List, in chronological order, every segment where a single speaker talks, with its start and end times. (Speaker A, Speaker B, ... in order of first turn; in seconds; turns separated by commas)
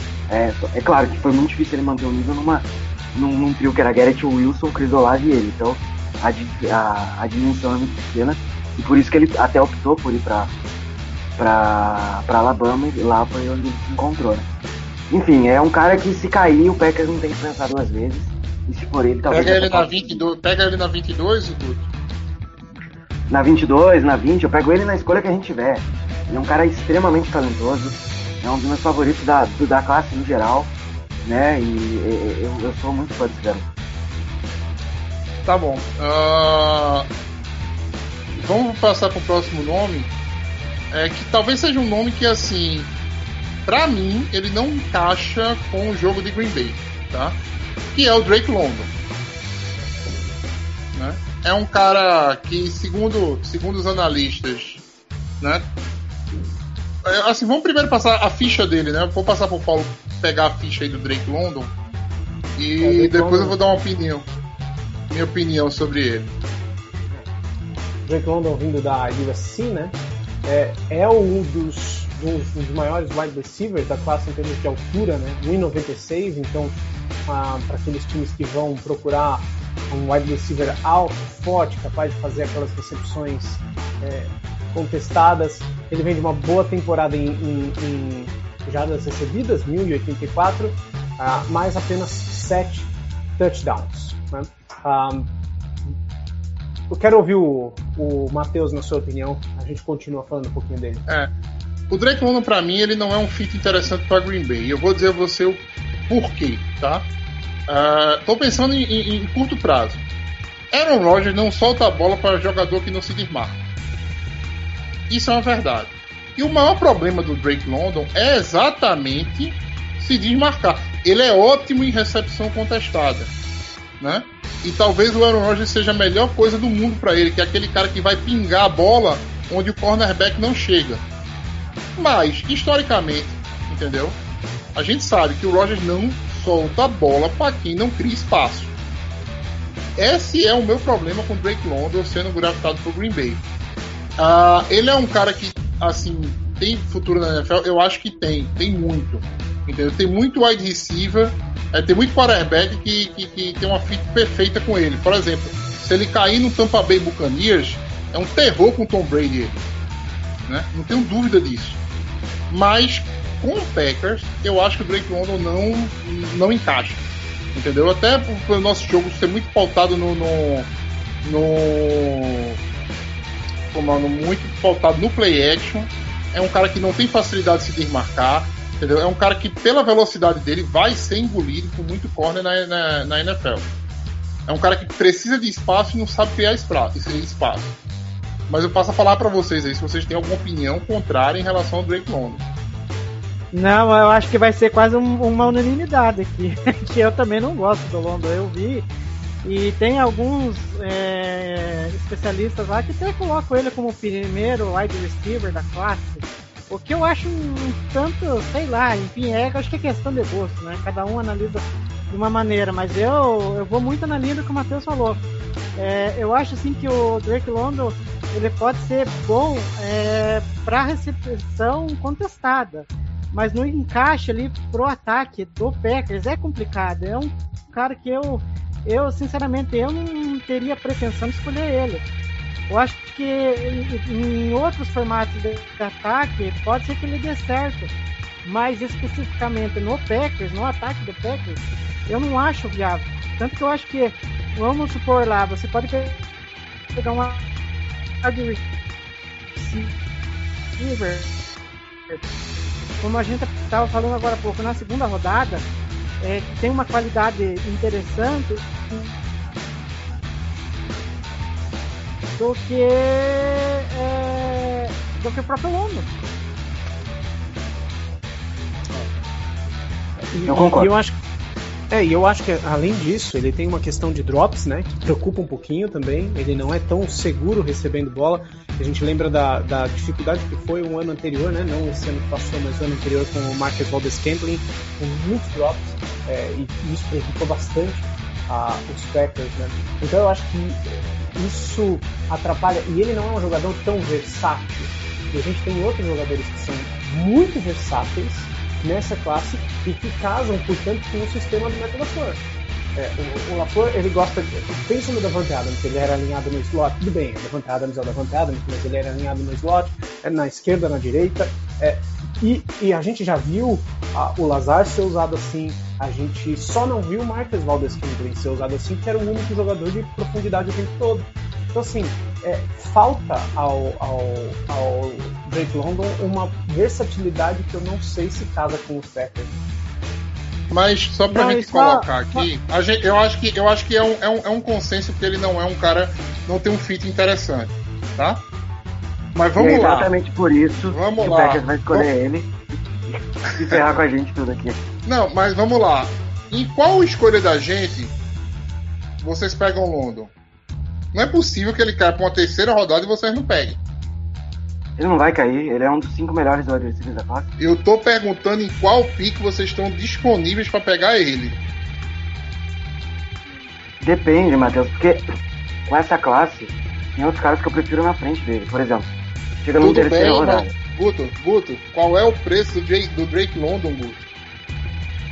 Speaker A: 0.3-10.5, Speaker A: 11.4-14.5, Speaker A: 15.1-20.2, Speaker B: 19.3-21.9, Speaker A: 23.3-33.7, Speaker B: 35.5-37.1, Speaker B: 38.3-40.1, Speaker B: 40.9-42.9, Speaker B: 43.7-47.4, Speaker B: 47.9-48.9, Speaker B: 51.0-54.9, Speaker B: 55.4-55.7, Speaker B: 57.0-61.7, Speaker B: 62.6-64.3, Speaker C: 62.8-63.6, Speaker B: 65.1-66.3, Speaker C: 68.0-95.3, Speaker C: 96.9-101.0, Speaker B: 101.1-101.3, Speaker B: 101.9-107.1, Speaker B: 107.7-110.0, Speaker B: 110.7-113.6, Speaker B: 115.1-123.3, Speaker B: 124.0-131.0, Speaker B: 132.0-134.2, Speaker B: 134.8-138.7, Speaker B: 140.0-143.4, Speaker B: 144.2-159.7, Speaker B: 160.5-161.8, Speaker B: 162.5-170.7, Speaker B: 171.2-172.6, Speaker B: 173.7-183.7, Speaker B: 184.5-187.8, Speaker B: 188.5-192.4, Speaker D: 193.5-198.9, Speaker D: 199.4-215.2, Speaker D: 215.8-232.1, Speaker D: 232.7-237.9, Speaker D: 238.4-246.2, Speaker D: 247.0-247.4, Speaker D: 248.2-248.7, Speaker D: 249.6-250.0, Speaker D: 250.8-251.3, Speaker D: 253.0-255.7, Speaker D: 256.2-259.1, Speaker D: 262.4-266.1, Speaker C: 270.3-271.2, Speaker A: 270.4-270.9, Speaker C: 271.9-302.4, Speaker C: 303.0-329.6, Speaker B: 330.7-338.4, Speaker D: 331.3-332.5, Speaker B: 339.3-340.1, Speaker A: 339.6-344.8, Speaker B: 340.8-342.1, Speaker B: 345.1-348.1, Speaker B: 349.2-350.3, Speaker B: 351.1-353.8, Speaker A: 355.0-357.5, Speaker B: 357.6-361.6, Speaker A: 364.0-365.2, Speaker A: 365.9-369.1, Speaker A: 369.6-370.7, Speaker B: 369.8-374.3